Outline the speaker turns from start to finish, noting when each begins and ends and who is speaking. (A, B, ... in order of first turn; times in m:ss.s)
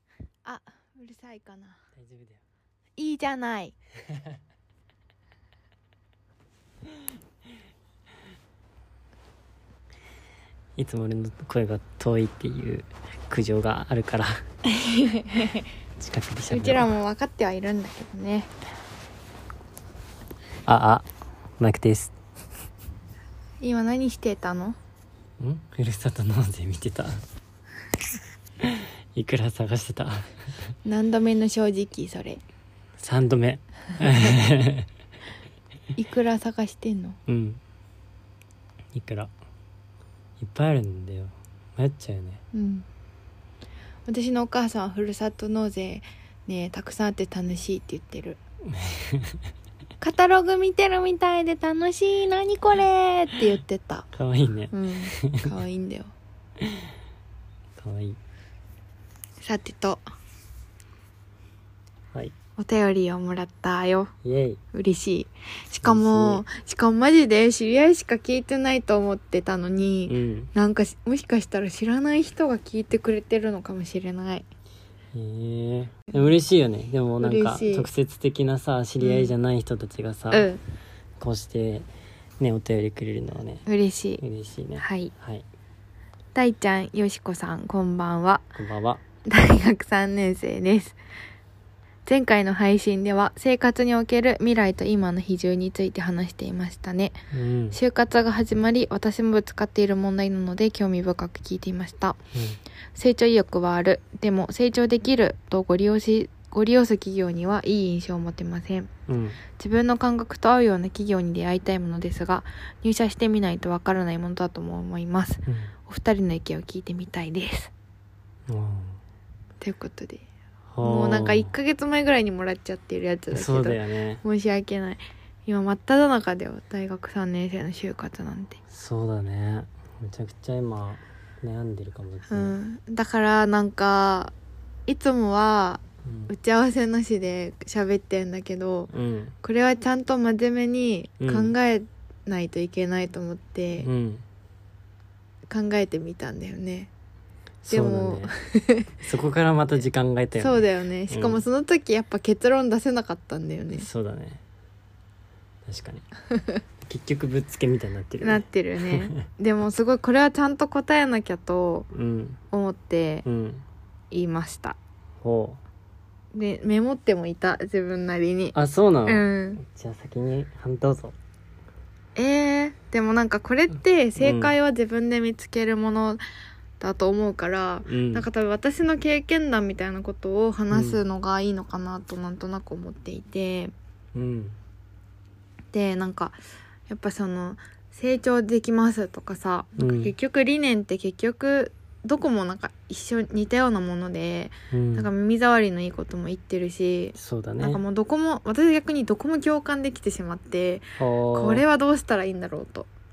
0:00.4-0:01.8 A
0:02.0-0:02.4 B
0:03.0-0:03.8 A
0:10.8-0:14.4 B
0:14.6-0:15.7 A
0:16.0-0:16.9 B
0:16.5-0:18.5 A
0:20.6-0:21.1 B
0:21.6-0:22.1 B
0:23.6-0:24.8 A
0:25.4-0:27.2 B
0:28.6-0:30.7 B
0:30.8-0:32.4 A
0:33.0-0:34.9 B
0:36.0-0:37.2 A
0:37.3-0:37.6 B
0:38.9-0:39.3 B
0:40.4-0:42.4 B
0:42.5-0:42.8 A
0:44.0-0:48.4 A
0:48.7-0:49.4 B
0:50.0-0:54.1 A
0:54.1-0:55.5 B
0:54.7-0:56.1 A
0:56.6-0:56.9 B
0:57.8-0:58.2 B
0:59.4-1:00.0 A
1:02.6-1:04.1 A
1:04.2-1:04.6 B
1:04.7-1:14.4 A
1:05.8-1:06.4 B
1:10.1-1:10.5 B
1:15.1-1:20.5 B
1:17.2-1:17.9 A
1:19.0-1:19.3 A
1:20.3-1:20.6 A
1:21.2-1:21.9 B
1:22.4-1:23.6 B
1:23.6-1:24.2 A
1:24.2-1:25.4 B
1:24.8-1:25.1 A
1:26.3-1:28.5 A
1:28.6-1:29.0 B
1:29.2-1:31.0 A
1:32.0-1:37.2 A
1:37.3-1:37.8 B
1:37.7-1:42.2 A
1:42.3-1:42.6 B
1:42.9-1:48.9 A
1:49.1-1:49.4 B
1:49.6-1:57.7 A
1:55.5-1:55.7 B
1:58.5-1:59.0 B
1:59.6-2:00.2 A
2:00.7-2:01.5 B
2:00.8-2:08.6 A
2:03.3-2:04.2 B
2:08.7-2:12.5 B
2:12.3-2:14.3 A
2:14.9-2:18.9 A
2:16.0-2:16.3 B
2:18.9-2:19.3 B
2:19.4-2:23.9 A
2:21.2-2:21.5 B
2:23.8-2:24.2 B
2:25.5-2:26.9 A
2:27.6-2:28.3 B
2:27.7-2:28.9 A
2:29.0-2:31.4 B
2:30.4-2:33.8 A
2:33.7-2:34.4 B
2:35.6-2:36.0 B
2:36.8-2:39.2 B
2:38.2-2:41.9 A
2:41.9-2:42.4 B
2:42.5-2:43.2 A
2:43.2-2:43.6 B
2:44.1-2:44.8 A
2:45.2-2:45.6 B
2:46.3-2:49.6 A
2:48.5-2:51.2 B
2:52.2-2:56.2 A
2:54.2-2:54.5 B
2:56.8-3:03.7 A
2:57.8-2:58.3 B
3:00.7-3:01.0 B
3:04.1-3:04.6 B
3:05.7-3:22.9 A
3:09.8-3:10.1 B
3:14.7-3:15.1 B
3:17.2-3:17.8 B
3:21.0-3:21.6 B